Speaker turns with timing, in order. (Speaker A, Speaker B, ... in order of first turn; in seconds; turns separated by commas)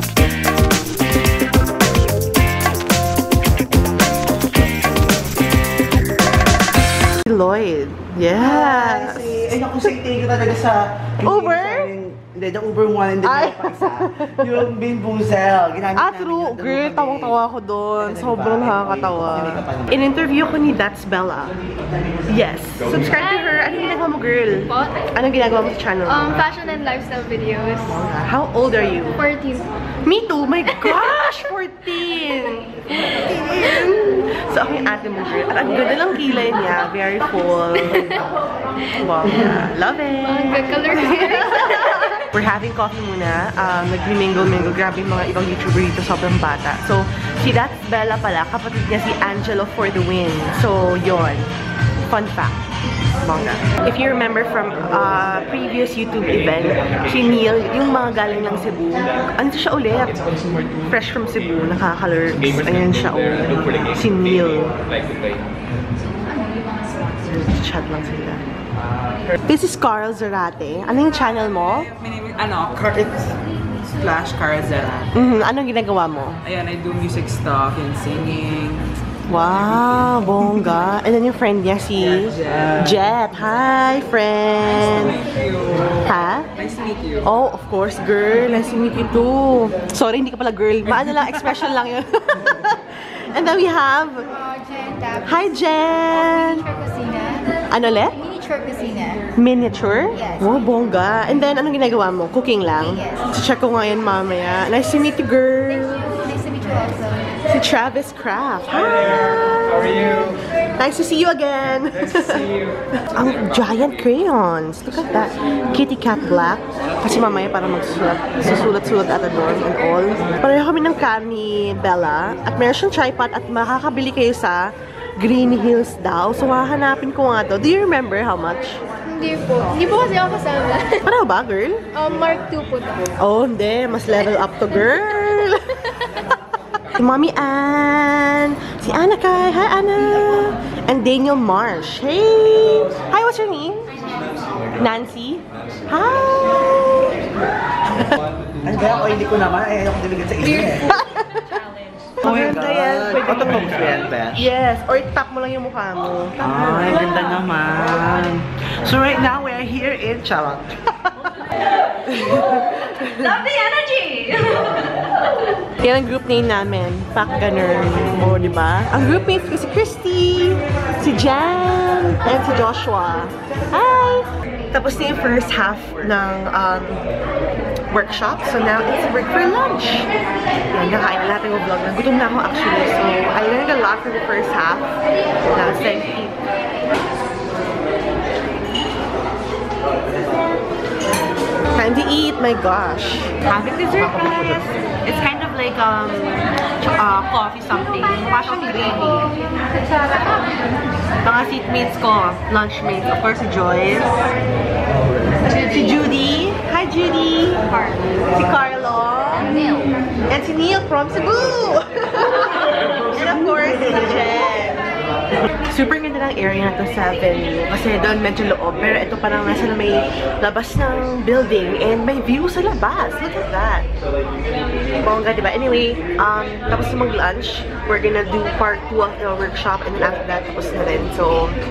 Speaker A: 7.2-9.4, Speaker B: 8.3-17.4, Speaker A: 11.2-11.9, Speaker A: 13.2-14.7, Speaker A: 15.9-21.6, Speaker B: 18.0-20.1, Speaker A: 22.3-26.5, Speaker C: 26.4-27.8, Speaker A: 27.8-29.2, Speaker C: 29.3-29.7, Speaker A: 30.0-38.3, Speaker A: 38.9-51.5, Speaker C: 40.5-41.0, Speaker A: 52.0-52.6, Speaker A: 53.2-60.2, Speaker A: 60.9-64.8, Speaker A: 67.3-68.5, Speaker A: 69.5-71.9, Speaker D: 72.2-73.4, Speaker D: 73.9-75.1, Speaker A: 75.1-76.4, Speaker D: 76.5-78.9, Speaker A: 79.3-85.2, Speaker A: 85.8-86.5, Speaker D: 86.6-87.2, Speaker A: 87.2-94.3, Speaker A: 95.2-96.8, Speaker A: 97.7-98.2, Speaker A: 99.3-106.2, Speaker A: 107.5-128.8, Speaker C: 129.1-130.9, Speaker A: 130.9-131.9, Speaker C: 131.9-133.0, Speaker A: 133.2-136.3, Speaker A: 136.9-143.9, Speaker A: 144.8-147.1, Speaker A: 147.9-148.2, Speaker B: 148.6-151.0, Speaker A: 150.8-151.6, Speaker A: 152.2-157.4, Speaker B: 152.2-154.4, Speaker B: 156.4-160.8, Speaker A: 162.0-163.6, Speaker C: 163.6-164.3, Speaker A: 165.7-177.0, Speaker A: 177.9-180.1, Speaker A: 180.7-184.9, Speaker A: 185.5-186.4, Speaker A: 191.7-200.4, Speaker A: 201.2-204.1, Speaker A: 205.4-207.6, Speaker A: 208.3-209.8, Speaker A: 210.3-214.8, Speaker A: 215.4-223.9, Speaker A: 225.0-231.6